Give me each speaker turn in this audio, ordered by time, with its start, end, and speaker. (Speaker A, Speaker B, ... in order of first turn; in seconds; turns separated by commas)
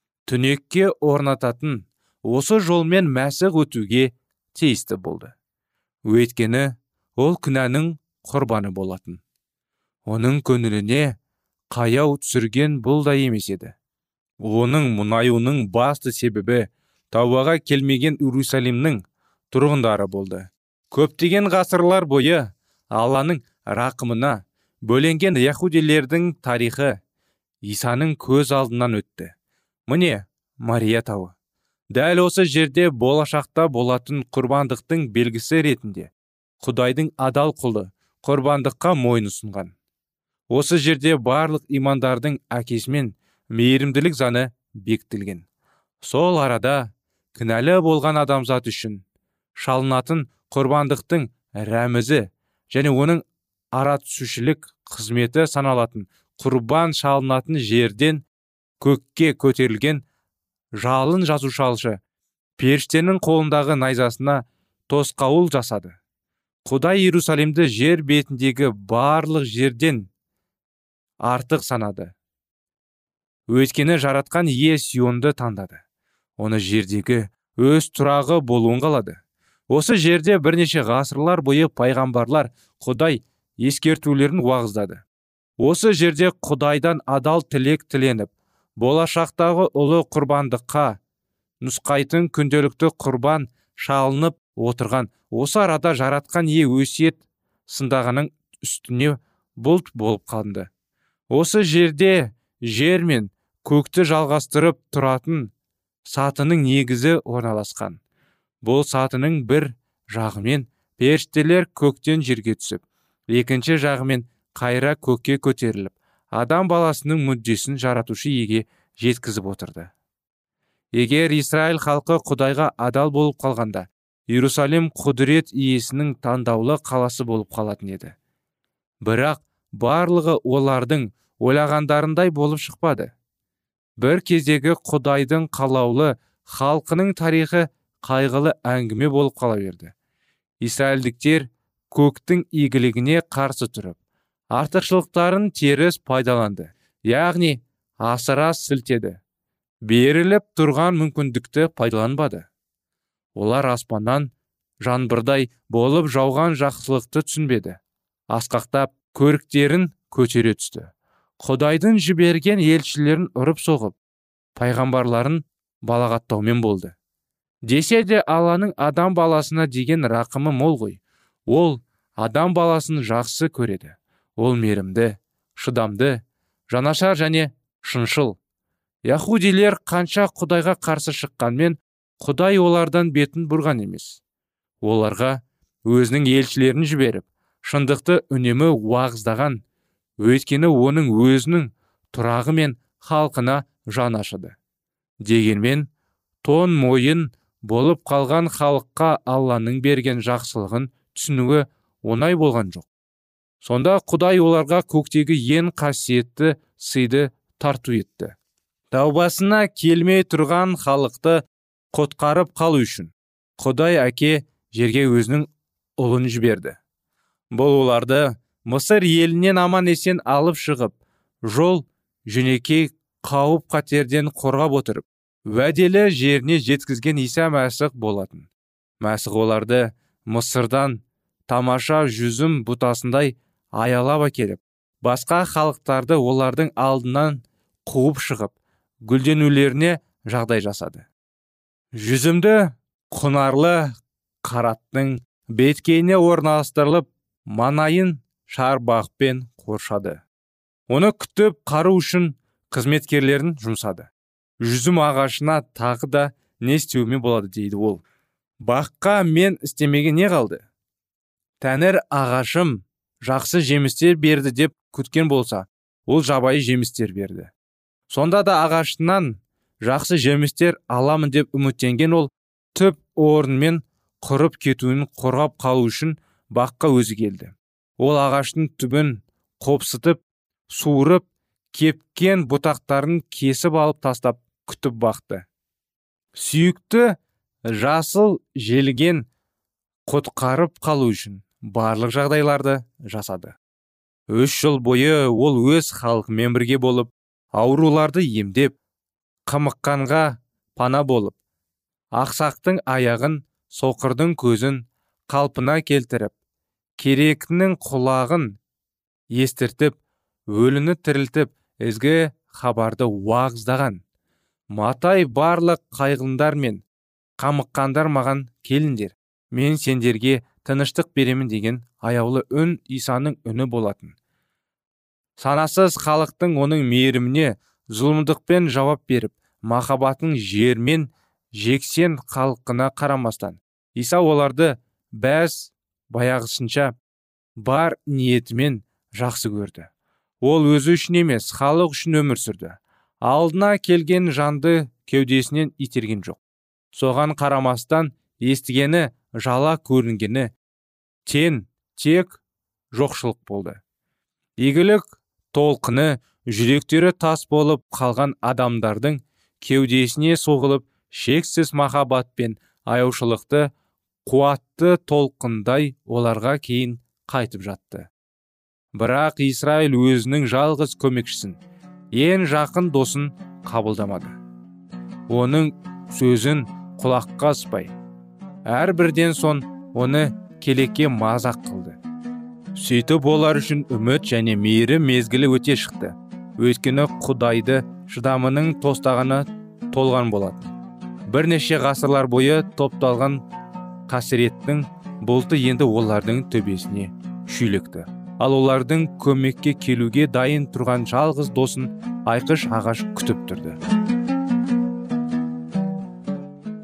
Speaker A: 0.3-5.3, Speaker A: 6.1-9.2, Speaker A: 10.1-11.2, Speaker A: 11.7-13.8, Speaker A: 14.4-27.0, Speaker A: 27.6-29.3, Speaker A: 29.9-31.3, Speaker A: 31.9-39.7, Speaker A: 40.5-45.5, Speaker A: 46.0-49.0, Speaker A: 49.6-53.2, Speaker A: 53.8-58.2, Speaker A: 58.8-60.0, Speaker A: 60.8-62.0, Speaker A: 62.6-66.0, Speaker A: 66.7-70.1, Speaker A: 71.3-72.1, Speaker A: 73.5-75.8, Speaker A: 76.4-79.2, Speaker A: 79.7-85.0, Speaker A: 85.6-91.0, Speaker A: 91.6-100.7, Speaker A: 101.3-105.5, Speaker A: 106.1-108.0, Speaker A: 108.6-119.9, Speaker A: 121.0-128.2, Speaker A: 129.0-133.1, Speaker A: 134.0-139.9, Speaker A: 140.6-144.0, Speaker A: 144.5-149.2, Speaker A: 149.9-152.5, Speaker A: 153.4-154.3, Speaker A: 154.8-157.8, Speaker A: 158.3-164.0, Speaker A: 164.6-167.0, Speaker A: 167.7-171.0, Speaker A: 171.5-178.4, Speaker A: 179.1-184.2, Speaker A: 184.8-189.6, Speaker A: 190.2-194.6, Speaker A: 195.2-195.9, Speaker A: 196.4-202.9, Speaker A: 203.6-208.4, Speaker A: 208.9-216.8, Speaker A: 217.5-228.5, Speaker A: 229.0-238.6, Speaker A: 239.1-241.1, Speaker A: 242.0-250.2, Speaker A: 250.9-254.1, Speaker A: 254.6-258.0, Speaker A: 258.6-260.7, Speaker A: 261.6-267.5, Speaker A: 268.1-285.5, Speaker A: 286.4-289.3, Speaker A: 290.1-293.6, Speaker A: 294.3-298.8, Speaker A: 299.5-301.4, Speaker A: 302.2-306.4, Speaker A: 307.0-308.6, Speaker A: 309.4-310.0, Speaker A: 310.5-314.0, Speaker A: 314.7-316.8, Speaker A: 317.4-324.2, Speaker A: 325.4-336.9, Speaker A: 337.6-339.9, Speaker A: 340.4-346.4, Speaker A: 346.9-350.5, Speaker A: 351.3-352.4, Speaker A: 352.9-353.8, Speaker A: 354.6-363.7, Speaker A: 364.3-368.1, Speaker A: 369.0-371.6, Speaker A: 372.1-374.4, Speaker A: 375.3-377.9, Speaker A: 378.7-382.0, Speaker A: 382.8-390.7, Speaker A: 391.3-393.4, Speaker A: 394.1-403.8